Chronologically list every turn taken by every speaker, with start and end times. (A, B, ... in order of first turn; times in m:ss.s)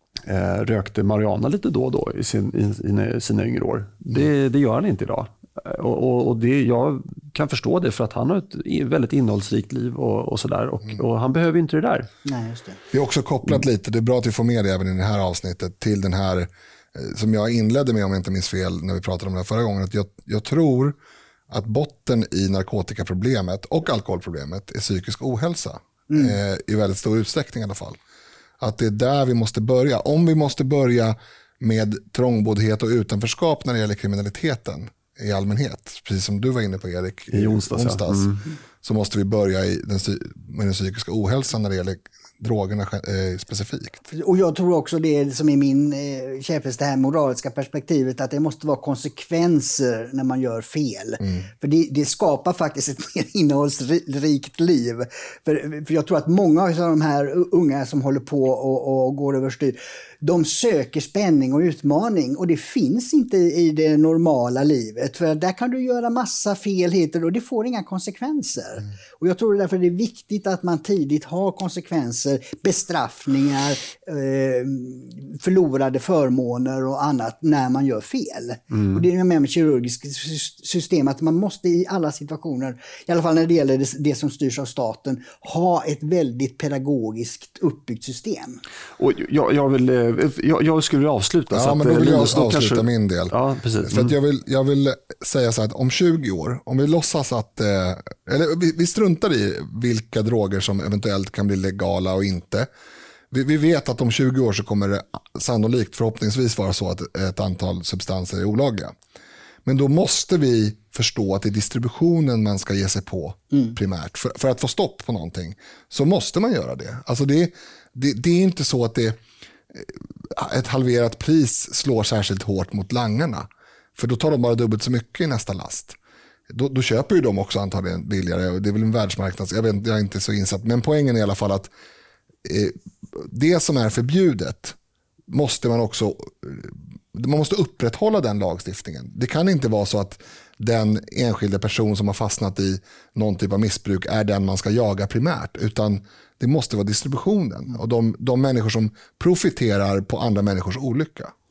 0:00.3-0:12.1 A
0:12.2-0:12.8 B
0:12.9-0:21.0 C
0:21.5-0:28.0 C
0:26.1-0:26.4 B
0:28.6-0:44.0 C
0:37.3-0:38.4 A
0:44.1-1:28.6 B
1:29.0-1:34.2 A
1:31.5-1:42.7 C
1:43.3-1:49.0 C
1:49.6-1:59.2 C
1:59.7-2:06.0 C
2:06.5-2:11.7 C
2:12.4-2:14.8 C
2:15.3-2:31.3 C